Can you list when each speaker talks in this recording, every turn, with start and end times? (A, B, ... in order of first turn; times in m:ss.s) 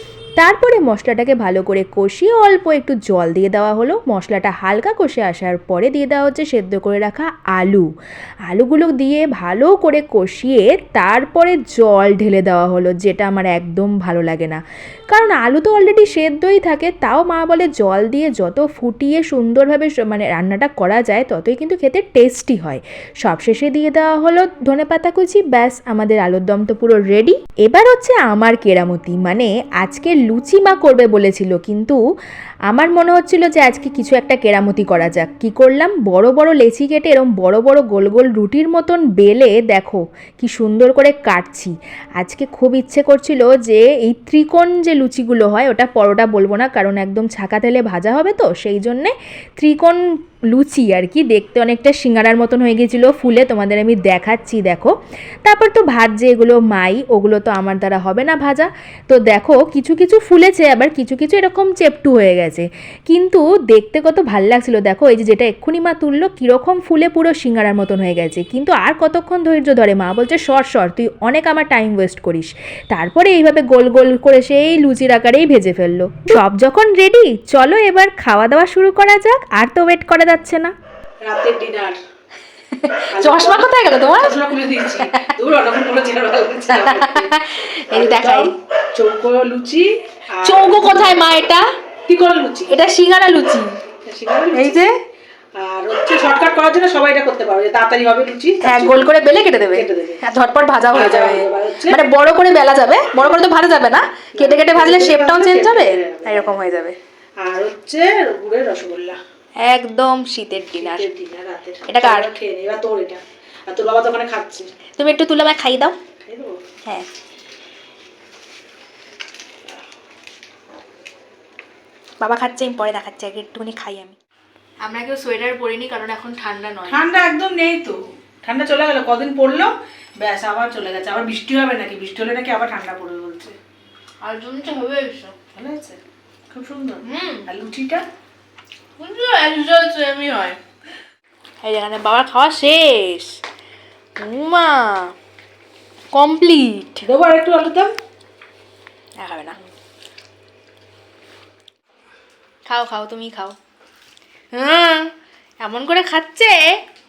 0:00.4-0:07.9 A
0:08.5-0:14.6 A
0:15.1-0:32.0 A
0:32.7-0:54.9 A
0:55.5-1:20.7 A
1:21.2-1:22.0 B
1:23.0-1:24.5 C
1:23.1-1:27.3 B
1:26.7-1:28.5 C
1:27.9-1:31.2 B
1:30.4-1:31.6 C
1:32.1-1:32.8 B
1:32.7-1:33.7 C
1:34.1-1:34.9 B
1:34.5-1:34.9 C
1:35.6-1:39.1 B
1:38.6-1:47.0 C
1:39.7-1:40.2 B
1:40.9-1:42.0 B
1:43.2-1:43.4 B
1:44.4-1:46.6 B
1:47.4-1:49.2 B
1:49.6-1:51.1 C
1:50.7-1:54.7 B
1:51.9-1:52.3 C
1:55.0-1:56.0 C
1:56.3-1:56.6 B
2:02.2-2:04.2 C
2:04.8-2:07.0 C
2:06.9-2:13.6 B
2:14.2-2:15.3 C
2:15.5-2:18.0 B
2:17.1-2:17.5 C
2:19.0-2:20.6 C
2:21.6-2:23.4 C
2:24.2-2:25.1 C
2:26.1-2:27.1 C
2:27.0-2:27.9 B
2:29.2-2:29.6 C
2:32.7-2:33.6 C
2:34.5-2:36.6 C